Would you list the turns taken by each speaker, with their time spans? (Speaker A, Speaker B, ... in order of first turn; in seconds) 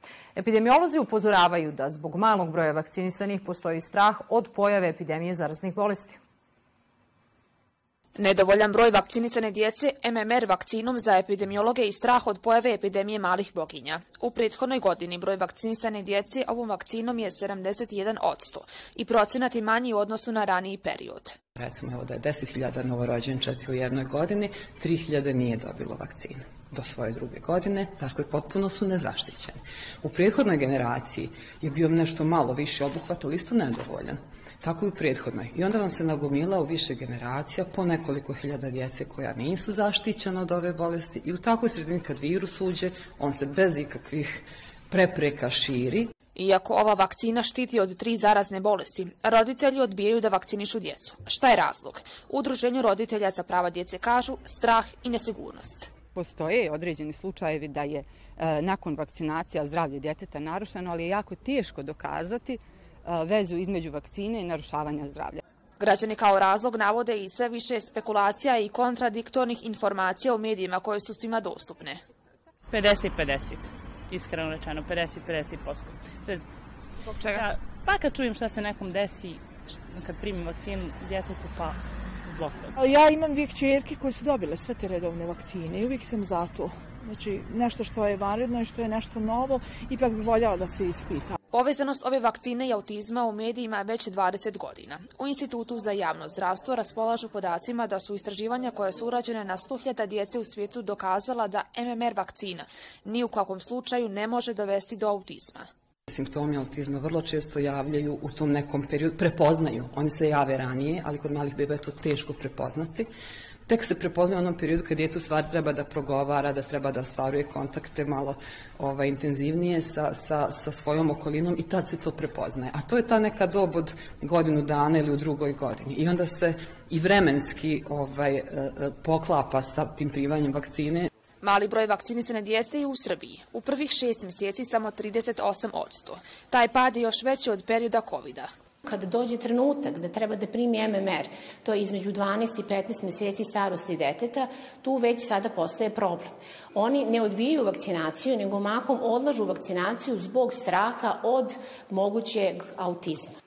Speaker A: 0.3-6.2
Speaker B: 8.2-21.3, 46.3-55.9, 65.8-72.0, 77.1-77.4, 91.5-105.7, 131.4-138.5
Speaker C: 21.6-46.1, 106.1-113.1, 113.7-131.1
Speaker D: 56.1-65.4
Speaker E: 72.7-76.5, 77.3-82.8
Speaker F: 82.8-91.3
Speaker G: 138.8-153.3